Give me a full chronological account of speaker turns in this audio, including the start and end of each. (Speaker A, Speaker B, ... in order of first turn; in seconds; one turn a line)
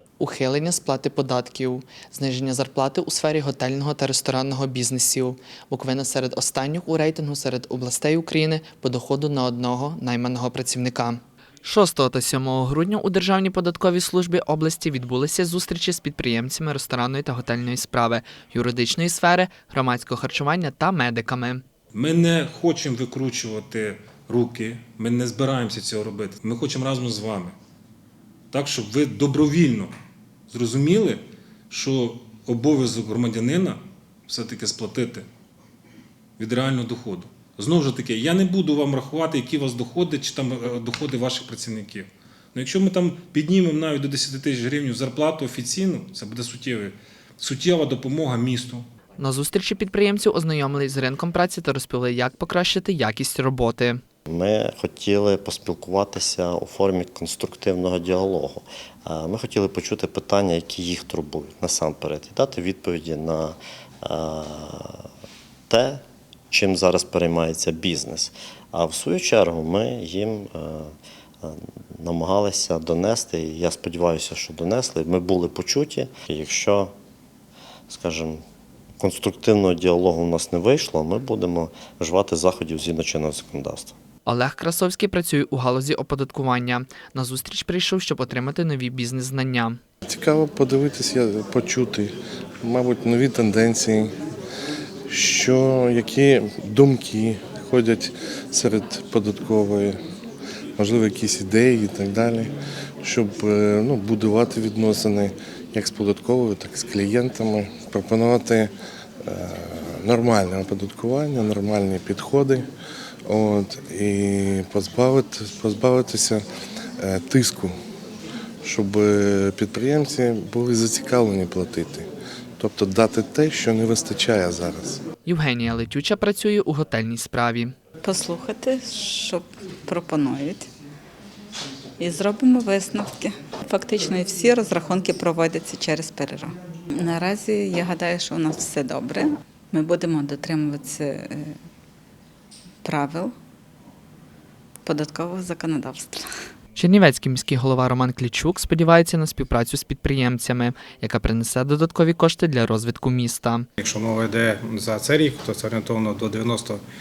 Speaker A: 0.2-21.6
Speaker B: 21.9-27.6
Speaker B: 28.5-29.9
Speaker B: 30.5-35.2
Speaker B: 36.4-48.9
Speaker A: 49.2-54.0
Speaker C: 54.3-65.0
Speaker C: 65.7-76.9
Speaker C: 77.9-78.4
Speaker C: 79.0-84.0
Speaker A: 84.2-89.8
Speaker D: 90.1-94.1
Speaker D: 95.1-100.0
Speaker D: 100.8-108.7
Speaker D: 109.2-112.7
Speaker D: 113.2-116.4
Speaker D: 117.0-117.7
Speaker D: 118.6-122.1
Speaker D: 122.6-125.0
Speaker A: 125.2-127.7
Speaker E: 128.0-130.7
Speaker E: 132.0-141.5
Speaker E: 142.8-143.3
Speaker E: 144.8-146.3
Speaker A: 146.8-153.7
Speaker F: 153.8-156.8